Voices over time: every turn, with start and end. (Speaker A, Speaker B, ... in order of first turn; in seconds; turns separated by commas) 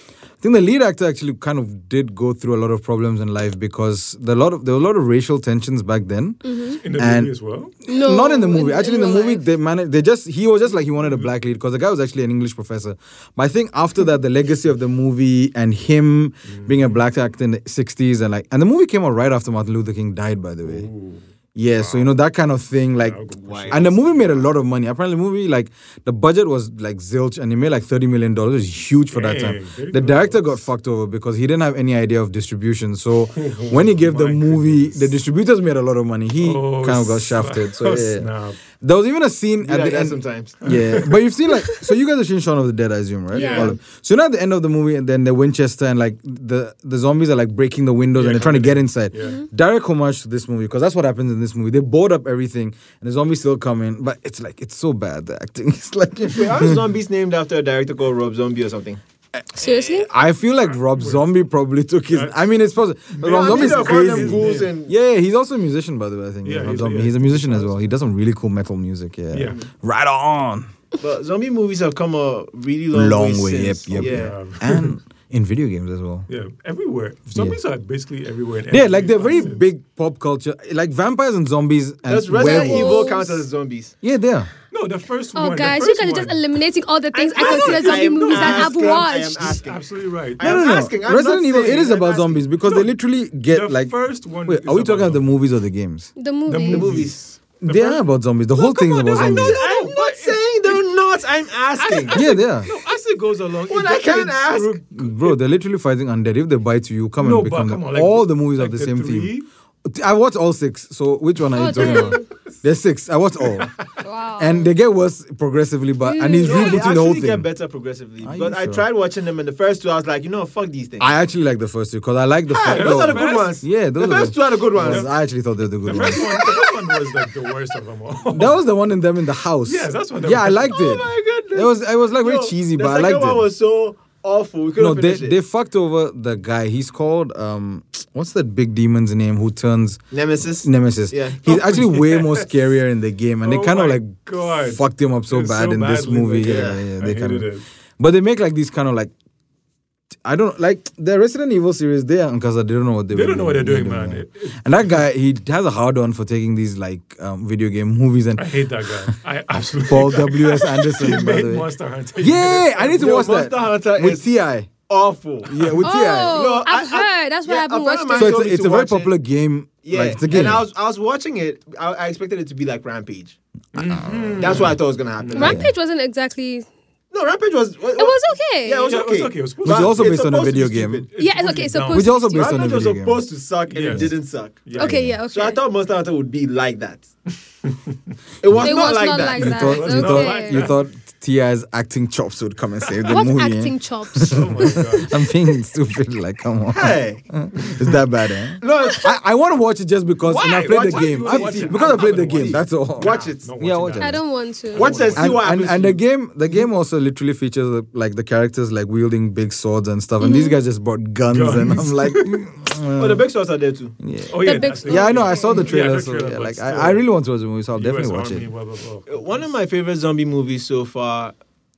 Speaker A: 0.4-6.4, Speaker B: 6.4-6.8, Speaker C: 6.8-7.8, Speaker A: 6.9-7.3, Speaker B: 7.9-9.4, Speaker A: 7.9-20.9, Speaker C: 16.5-17.0, Speaker C: 20.6-22.2, Speaker A: 21.6-38.3, Speaker C: 23.0-24.1, Speaker D: 23.4-24.5, Speaker C: 29.1-30.5, Speaker C: 33.4-35.1, Speaker C: 36.4-38.6, Speaker A: 38.8-56.8, Speaker D: 39.6-40.5, Speaker C: 40.6-41.1, Speaker C: 43.3-43.7, Speaker B: 43.3-43.7, Speaker C: 48.1-49.4, Speaker B: 49.2-49.5, Speaker D: 56.3-59.0, Speaker B: 59.5-60.1, Speaker A: 59.6-70.7, Speaker C: 60.8-61.3, Speaker C: 62.1-62.4, Speaker C: 63.1-64.7, Speaker D: 63.2-64.9, Speaker C: 66.4-67.8, Speaker C: 69.3-69.6, Speaker D: 71.0-74.3, Speaker A: 72.9-76.3, Speaker C: 73.9-74.9, Speaker C: 76.3-79.6, Speaker A: 78.7-83.3, Speaker D: 82.1-83.9, Speaker B: 82.3-83.4, Speaker A: 84.0-84.5, Speaker C: 84.7-86.4, Speaker B: 85.3-89.6, Speaker D: 87.2-89.8, Speaker C: 87.2-90.7, Speaker D: 90.4-92.5, Speaker A: 90.4-93.9, Speaker C: 92.6-92.9, Speaker C: 93.5-95.2, Speaker A: 94.5-96.1, Speaker B: 96.2-96.9, Speaker C: 96.5-98.0, Speaker D: 96.7-97.2, Speaker A: 97.6-99.6, Speaker B: 98.6-99.5, Speaker D: 99.2-102.2, Speaker C: 99.3-100.8, Speaker C: 101.8-105.4, Speaker A: 102.1-102.7, Speaker D: 103.7-104.8, Speaker A: 104.9-109.3, Speaker C: 107.2-109.5, Speaker A: 109.8-113.7, Speaker B: 111.5-112.3, Speaker C: 113.5-113.8, Speaker B: 114.0-114.7, Speaker A: 114.4-117.5, Speaker B: 116.0-116.8, Speaker D: 116.4-121.1, Speaker A: 118.2-118.8, Speaker A: 121.0-126.3, Speaker D: 122.5-125.1, Speaker C: 122.6-123.6, Speaker C: 124.8-125.1, Speaker C: 125.8-128.6, Speaker D: 125.9-126.7, Speaker A: 128.3-133.5, Speaker C: 129.7-130.8, Speaker D: 130.7-135.4, Speaker A: 134.8-140.0, Speaker D: 140.1-141.4, Speaker A: 140.6-147.5, Speaker C: 141.5-142.5, Speaker C: 143.4-147.7, Speaker D: 146.4-146.8, Speaker A: 148.0-149.1, Speaker A: 150.2-159.1, Speaker C: 153.1-154.9, Speaker C: 158.4-163.1, Speaker A: 159.8-164.7, Speaker D: 162.9-164.2, Speaker D: 164.8-165.7, Speaker A: 165.4-166.4, Speaker B: 165.8-168.4, Speaker D: 166.3-169.1, Speaker A: 168.2-170.7, Speaker D: 169.8-173.4, Speaker C: 173.8-175.6, Speaker A: 173.9-174.5, Speaker D: 174.4-175.6, Speaker B: 175.3-176.7, Speaker A: 175.4-175.7, Speaker D: 177.1-181.1, Speaker B: 178.0-178.9, Speaker C: 178.9-180.4, Speaker A: 179.6-181.1, Speaker C: 181.1-182.2, Speaker B: 181.2-182.8, Speaker A: 181.9-183.3, Speaker D: 182.3-184.7, Speaker C: 183.7-185.0, Speaker B: 184.8-185.6, Speaker A: 184.8-185.2, Speaker D: 185.3-187.1, Speaker D: 188.4-189.8, Speaker A: 188.5-204.2, Speaker B: 188.6-190.7, Speaker C: 189.4-190.8, Speaker B: 193.1-195.1, Speaker C: 194.2-195.2, Speaker D: 196.7-197.2, Speaker C: 197.6-197.9, Speaker D: 198.6-199.1, Speaker C: 200.2-205.6, Speaker D: 200.6-203.5, Speaker B: 204.0-205.0, Speaker D: 204.7-206.0, Speaker A: 205.1-213.2, Speaker B: 210.2-210.6, Speaker C: 211.3-212.4, Speaker D: 213.0-213.9, Speaker A: 214.0-218.5, Speaker C: 214.3-217.1, Speaker B: 214.4-215.7, Speaker C: 217.8-219.5, Speaker D: 219.1-221.3